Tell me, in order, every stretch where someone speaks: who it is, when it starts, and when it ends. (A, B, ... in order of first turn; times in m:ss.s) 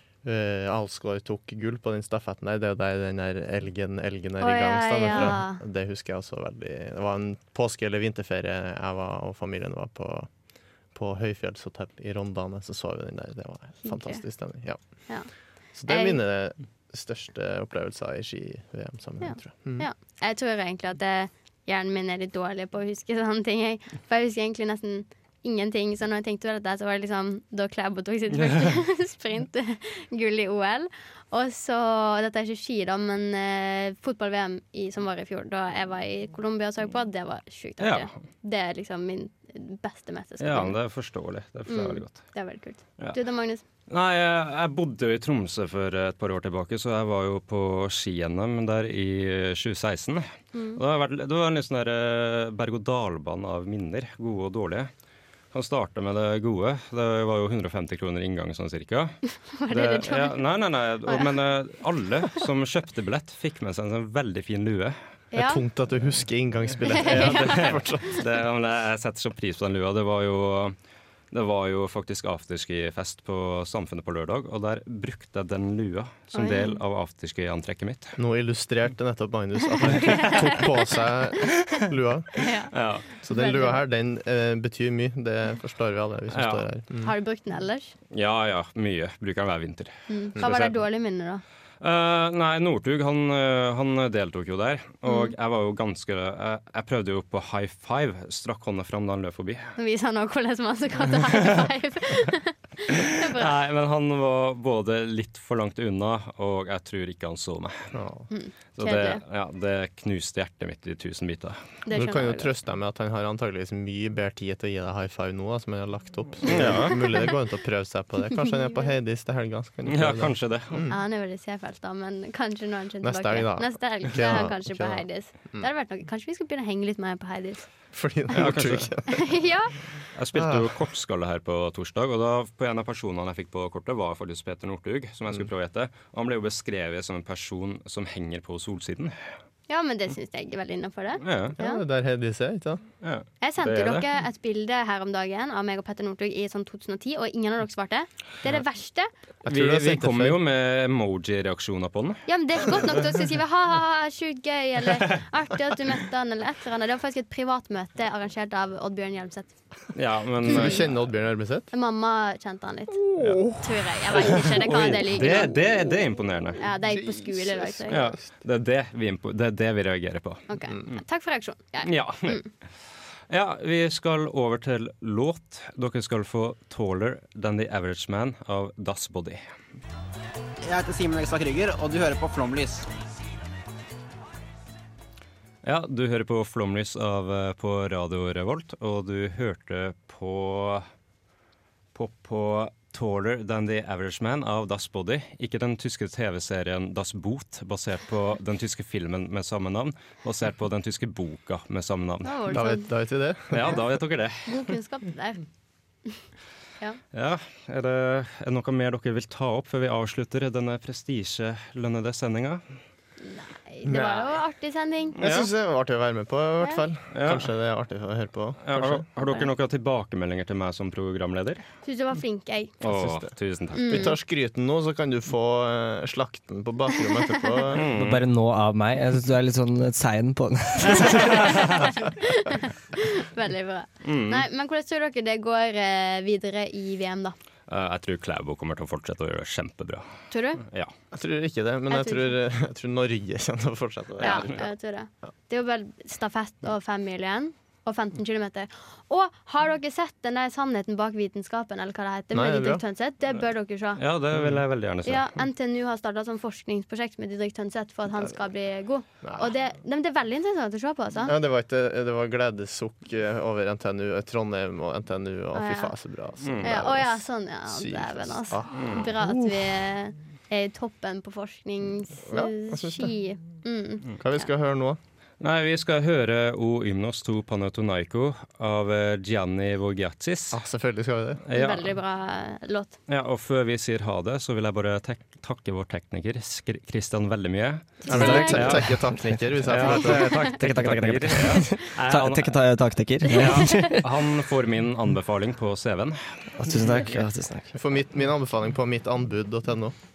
0:00.2-0:10.3 A
0:04.4-0:05.6 B
0:10.9-0:15.1 A
0:13.8-0:14.2 B
0:15.1-0:16.2 B
0:15.8-0:19.9 A
0:19.2-0:40.8 B
0:37.8-0:38.1 C
0:40.4-0:42.3 C
0:41.7-0:43.6 B
0:43.9-0:54.9 C
0:50.5-0:50.8 B
0:55.5-1:05.0 C
0:59.5-1:00.4 B
1:05.3-1:05.6 B
1:05.3-1:08.2 A
1:06.9-1:07.8 B
1:07.0-1:10.8 C
1:11.3-1:18.2 C
1:16.4-1:16.8 B
1:18.2-1:22.4 A
1:19.9-1:20.7 B
1:22.4-1:23.8 B
1:22.7-1:23.0 C
1:23.2-1:27.1 A
1:26.3-1:26.7 C
1:27.0-1:27.9 B
1:28.1-1:30.8 C
1:30.1-1:31.4 B
1:31.8-1:39.7 C
1:35.1-1:35.3 B
1:39.8-1:43.5 B
1:43.2-1:47.9 C
1:47.9-1:48.3 A
1:48.3-1:49.2 B
1:48.8-1:51.6 C
1:51.9-1:52.5 B
1:51.9-2:01.0 A
1:56.4-1:57.0 C
1:58.4-1:58.9 B
1:59.9-2:00.8 C
2:00.9-2:07.7 B
2:03.0-2:05.7 A
2:07.9-2:09.3 A
2:08.3-2:08.9 C
2:09.1-2:09.8 B
2:10.2-2:19.2 C
2:10.3-2:10.7 A
2:19.7-2:21.8 B
2:21.2-2:21.6 C
2:21.6-2:22.8 A
2:23.0-2:24.0 C
2:23.4-2:29.1 B
2:29.4-2:30.4 A
2:29.5-2:32.2 C
2:32.3-2:39.5 B
2:40.0-2:40.9 C
2:40.4-2:41.7 A
2:41.7-2:43.0 B
2:43.0-2:43.7 A
2:43.6-2:45.6 B
2:44.1-2:46.6 C
2:45.2-2:45.8 A
2:46.6-2:48.0 B
2:46.6-2:48.2 A
2:47.9-2:51.0 C
2:50.5-2:52.5 B
2:51.8-2:52.4 C
2:53.3-2:59.4 C
3:00.6-3:02.9 D
3:05.6-3:10.9 C
3:11.9-3:22.5 C
3:22.2-3:22.9 B
3:22.5-3:23.8 A
3:23.5-3:24.8 C
3:24.5-3:25.4 B
3:27.1-3:32.6 C
3:33.2-3:35.2 B
3:33.8-3:34.4 A
3:35.2-3:39.0 A
3:35.2-3:35.5 C
3:37.1-3:37.5 C
3:38.6-3:41.6 C
3:41.8-3:42.7 B
3:42.8-3:44.1 C
3:42.9-3:43.3 A
3:43.7-3:44.2 B
3:43.8-3:47.8 A
3:47.7-3:48.3 C
3:47.9-3:51.9 E
3:51.0-3:51.7 C
3:51.5-3:57.4 B
3:54.0-3:54.4 C
3:57.7-4:00.0 C
4:00.3-4:00.6 B
4:00.6-4:00.9 C
4:01.1-4:04.7 A
4:01.9-4:02.3 B
4:04.2-4:14.0 B
4:12.3-4:12.8 A
4:14.0-4:15.3 C
4:14.3-4:14.6 A
4:15.1-4:21.4 B
4:19.2-4:19.5 A
4:21.3-4:29.7 A
4:25.5-4:25.9 B
4:26.4-4:26.9 C
4:26.6-4:34.5 B
4:28.7-4:29.0 C
4:32.3-4:33.1 A
4:34.2-4:35.0 A
4:35.4-4:40.6 C
4:40.5-4:41.4 A
4:41.5-4:41.9 C
4:41.5-4:42.9 B
4:43.1-4:48.9 C
4:48.0-4:48.7 B
4:48.1-4:50.4 A
4:48.1-4:49.3 E
4:49.6-4:52.7 C
4:50.5-4:54.1 E
4:53.3-4:57.2 C
4:53.3-4:53.9 B
4:56.6-4:57.8 E
4:57.8-5:00.0 A